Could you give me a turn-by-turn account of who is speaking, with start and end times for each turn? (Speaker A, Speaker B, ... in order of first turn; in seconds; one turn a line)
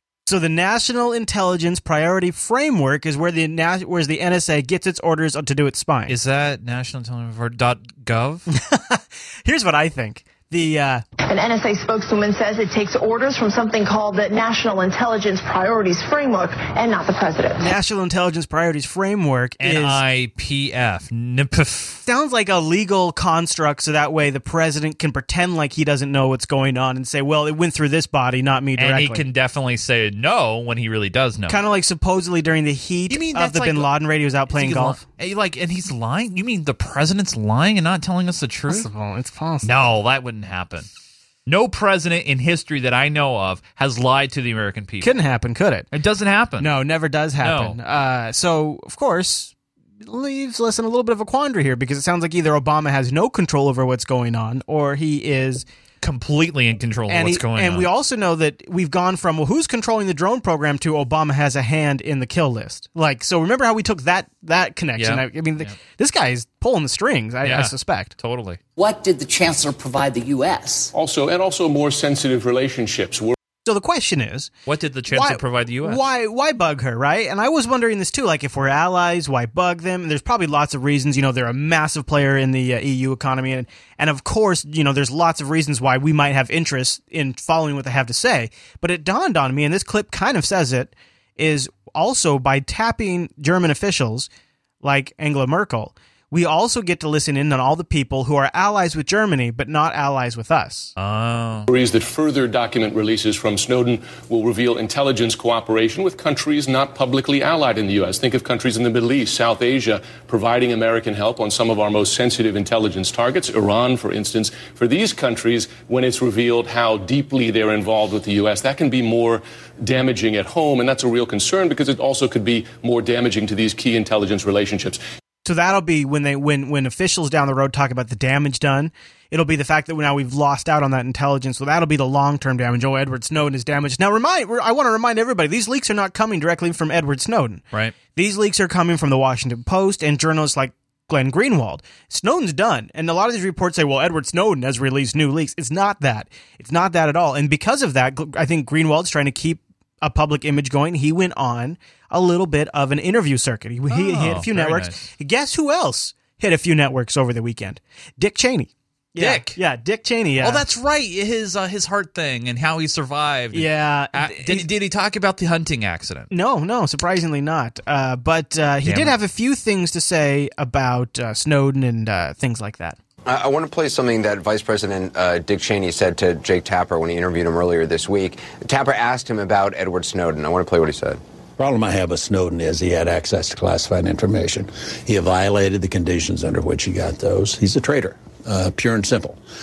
Speaker A: 0.3-6.1
Speaker B: 6.1-8.5
Speaker A: 8.5-11.0
Speaker C: 11.3-14.1
Speaker C: 14.6-17.6
Speaker A: 17.6-20.0
Speaker B: 19.6-22.0
Speaker A: 22.1-29.2
Speaker B: 28.8-31.6
Speaker A: 31.5-35.0
Speaker B: 33.1-33.9
Speaker B: 34.5-38.9
Speaker A: 38.7-39.7
Speaker B: 39.6-40.9
Speaker B: 41.5-45.1
Speaker A: 45.0-45.9
Speaker B: 45.9-46.7
Speaker A: 46.6-49.5
Speaker B: 47.4-47.8
Speaker A: 50.0-55.6
Speaker B: 56.0-57.9
Speaker A: 57.1-68.1
Speaker B: 65.0-65.7
Speaker B: 67.4-68.6
Speaker D: 68.8-70.9
Speaker E: 70.9-73.3
Speaker A: 73.6-74.5
Speaker B: 74.7-76.0
Speaker A: 75.1-94.3
Speaker A: 94.8-100.9
Speaker B: 101.0-101.7
Speaker E: 101.7-125.0
Speaker A: 125.4-137.6
Speaker A: 138.1-160.6
Speaker B: 153.9-155.0
Speaker B: 159.2-159.6
Speaker B: 160.4-166.3
Speaker A: 163.5-164.7
Speaker A: 166.3-173.0
Speaker B: 168.8-169.1
Speaker F: 173.2-181.2
Speaker G: 181.6-189.4